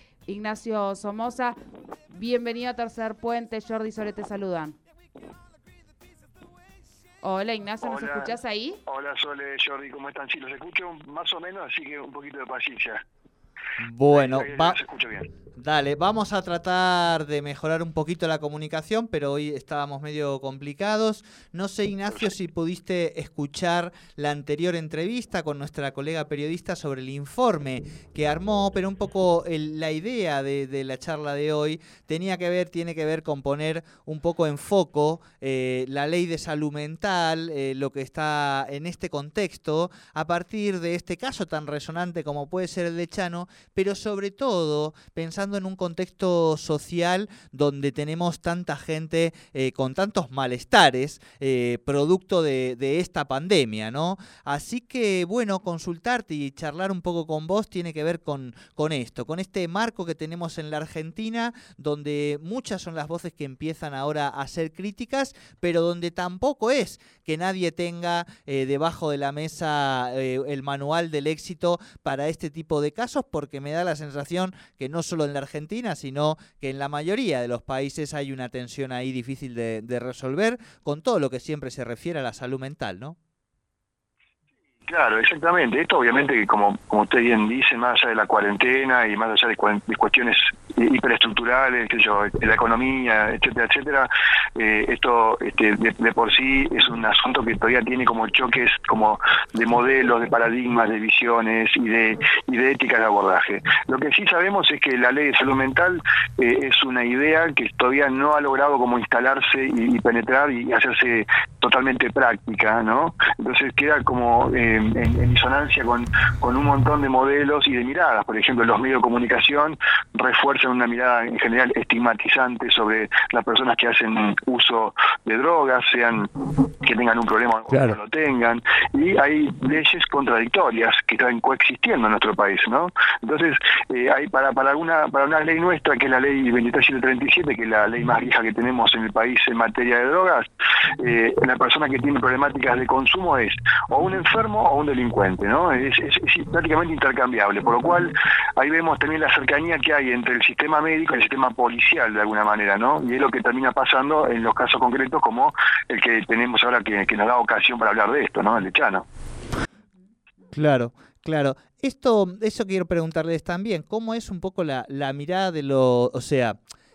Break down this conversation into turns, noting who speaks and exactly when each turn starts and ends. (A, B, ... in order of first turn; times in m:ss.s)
0:00.2-0:01.6 A
0:02.1-0:04.8 A
0:07.2-0:08.8 A
0:07.8-0:13.0 B
0:13.8-0:14.8 C
0:14.1-0:15.3 B
0:15.6-1:23.2 C
1:24.9-2:06.3 B
2:06.8-2:20.4 B
2:21.0-2:39.0 B
2:40.5-2:46.6 C